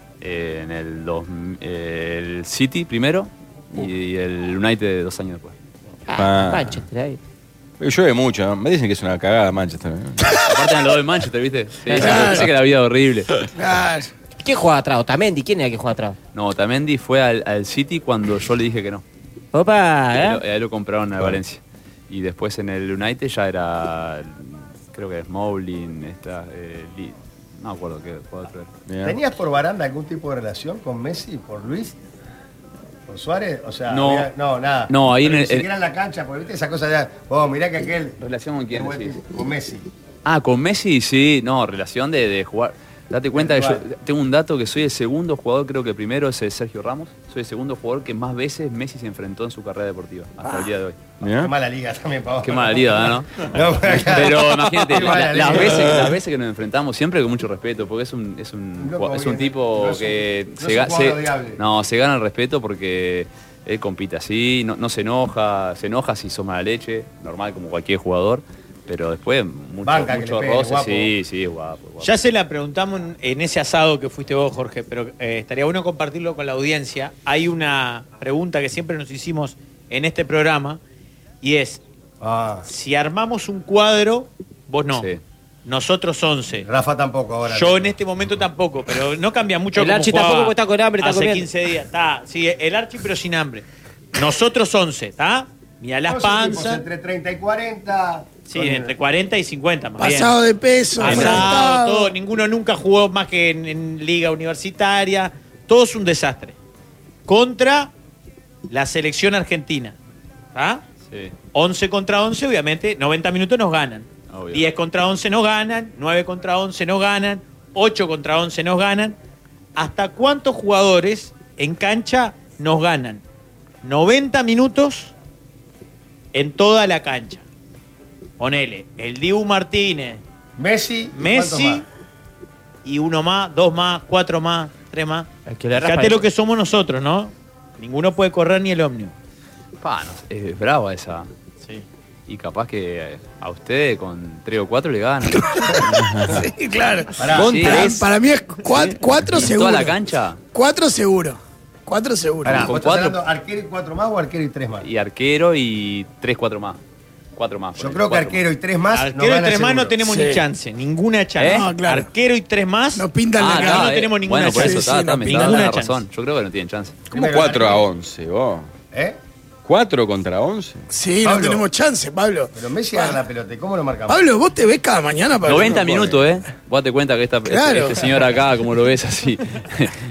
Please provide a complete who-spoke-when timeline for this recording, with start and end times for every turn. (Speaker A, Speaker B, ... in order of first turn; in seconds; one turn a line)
Speaker A: 0.2-5.5
Speaker B: 6.1-7.2
Speaker C: 6.2-6.8
Speaker C: 7.8-10.3
Speaker A: 10.5-13.3
Speaker B: 11.9-12.4
Speaker D: 12.0-12.4
Speaker D: 13.6-14.1
Speaker B: 14.4-16.1
Speaker A: 16.3-19.0
Speaker B: 19.5-20.4
Speaker A: 20.1-28.7
Speaker C: 28.9-29.2
Speaker E: 29.0-32.0
Speaker E: 33.1-38.1
Speaker A: 33.9-34.3
Speaker A: 34.9-35.7
Speaker A: 38.2-39.1
Speaker E: 38.7-39.9
Speaker A: 40.2-51.1
Speaker E: 43.3-43.8
Speaker C: 51.2-51.5
Speaker E: 51.4-56.1
Speaker A: 52.4-72.1
Speaker E: 58.8-61.6
Speaker E: 69.8-71.1
Speaker F: 72.0-80.8
Speaker F: 81.4-81.8
Speaker E: 82.2-82.7
Speaker F: 82.7-85.1
Speaker A: 84.9-85.2
Speaker F: 85.6-86.7
Speaker E: 86.6-87.9
Speaker F: 87.5-93.6
Speaker B: 89.8-91.5
Speaker F: 94.1-96.8
Speaker E: 96.1-98.9
Speaker F: 98.5-100.4
Speaker D: 100.0-102.1
Speaker F: 101.0-106.5
Speaker F: 107.3-107.9
Speaker F: 108.7-110.0
Speaker F: 110.5-110.8
Speaker A: 111.1-111.3
Speaker F: 111.5-119.2
Speaker A: 114.3-114.7
Speaker F: 119.8-123.2
Speaker F: 123.8-125.1
Speaker F: 126.3-127.4
Speaker F: 128.4-130.2
Speaker E: 130.6-131.8
Speaker F: 131.1-131.8
Speaker F: 132.8-139.1
Speaker B: 135.4-136.2
Speaker A: 139.8-141.3
Speaker A: 142.3-146.4
Speaker D: 145.3-145.7
Speaker C: 146.0-146.4
Speaker D: 146.3-149.9
Speaker E: 147.2-148.0
Speaker A: 147.3-148.0
Speaker A: 149.3-150.4
Speaker D: 150.5-152.7
Speaker E: 152.4-154.9
Speaker A: 152.4-153.2
Speaker A: 154.8-156.8
Speaker A: 157.3-158.4
Speaker E: 157.8-160.0
Speaker F: 158.9-166.0
Speaker D: 160.0-160.4
Speaker A: 161.4-161.7
Speaker D: 161.4-162.1
Speaker D: 162.9-165.6
Speaker A: 163.4-167.0
Speaker E: 167.1-167.8
Speaker C: 167.1-168.7
Speaker E: 168.9-169.2
Speaker C: 169.6-170.8
Speaker D: 170.9-173.2
Speaker E: 171.2-171.7
Speaker E: 172.5-174.3
Speaker D: 174.1-176.1
Speaker A: 175.4-180.0
Speaker D: 177.5-178.0